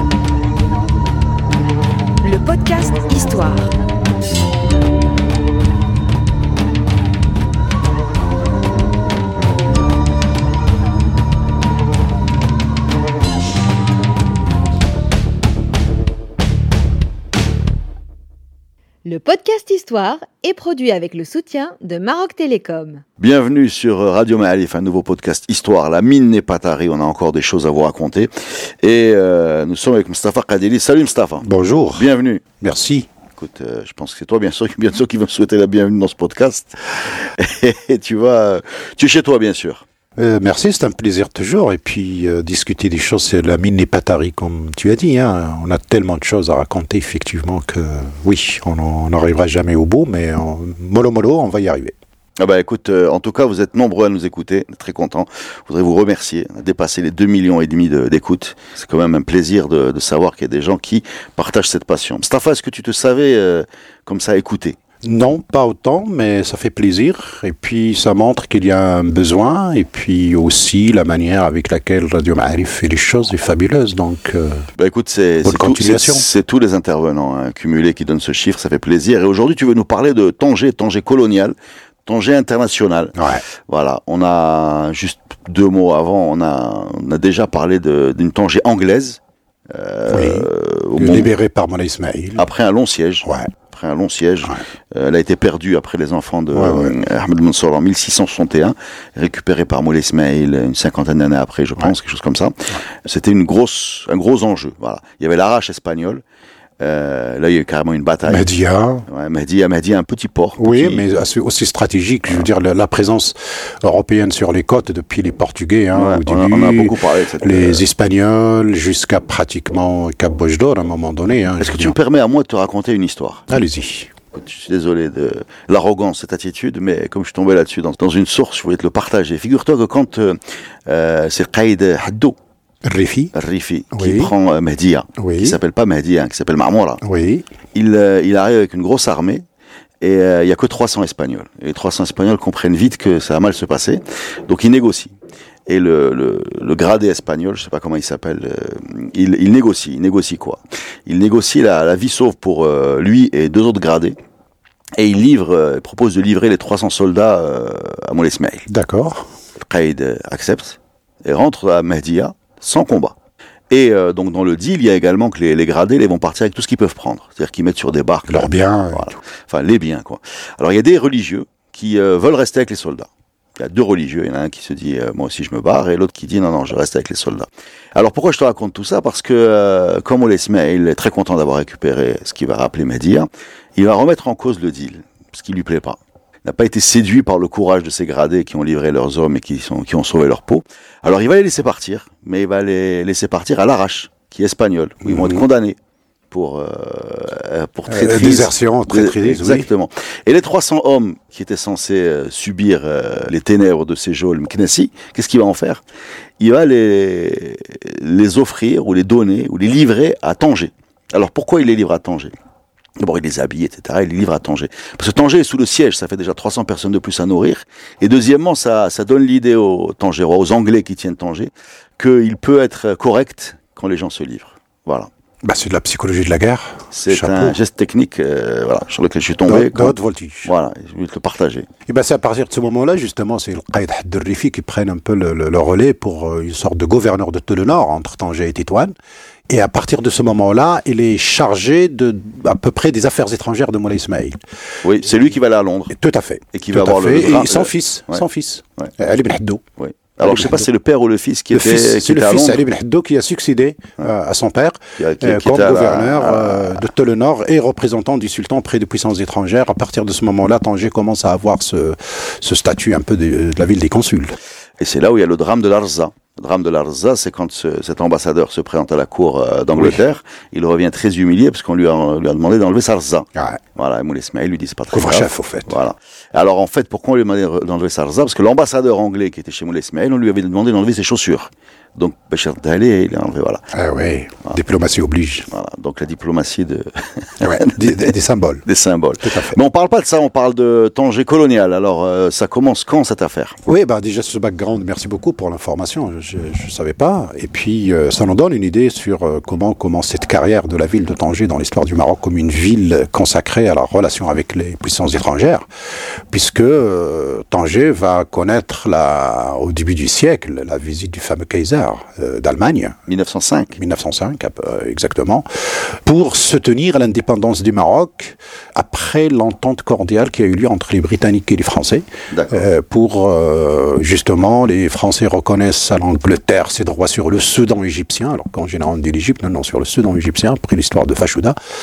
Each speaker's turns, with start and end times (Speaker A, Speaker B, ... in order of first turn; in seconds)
Speaker A: 2.2-3.7, 19.0-23.0
Speaker B: 23.2-32.4, 33.4-39.8, 52.4-64.8, 74.8-81.5, 82.1-91.3, 92.4-106.2, 106.8-108.5, 109.1-111.0, 115.9-117.8, 121.6-123.5, 124.3-132.4, 133.3-137.0, 137.7-139.4, 140.0-145.1, 145.7-154.2, 155.0-158.7, 159.6-163.2, 163.7-195.8, 196.3-205.8, 206.4-212.3, 213.0-225.1, 226.9-231.7, 244.8-245.9, 246.5-248.2, 249.8-252.6, 255.0-256.8, 264.8-283.6, 285.5-288.0, 288.7-293.6, 313.1-313.8, 322.3-322.6
Speaker C: 31.4-33.1, 40.2-51.9, 65.0-74.7, 75.4-76.2, 83.2-83.4, 90.1-92.5, 93.2-93.5, 96.5-97.0, 108.3-109.0, 110.6-121.9, 123.5-124.1, 132.8-133.3, 133.9-134.3, 135.2-135.6, 137.0-137.4, 158.7-159.3, 168.3-169.2, 195.1-195.4, 197.9-199.7, 225.4-227.6, 229.5-230.5, 231.9-238.9, 239.5-244.4, 245.9-249.6, 250.2-250.7, 251.5-264.4, 274.9-275.7, 283.7-285.5, 287.4-288.6, 289.2-289.6, 293.7-305.7, 306.3-313.0, 313.8-331.6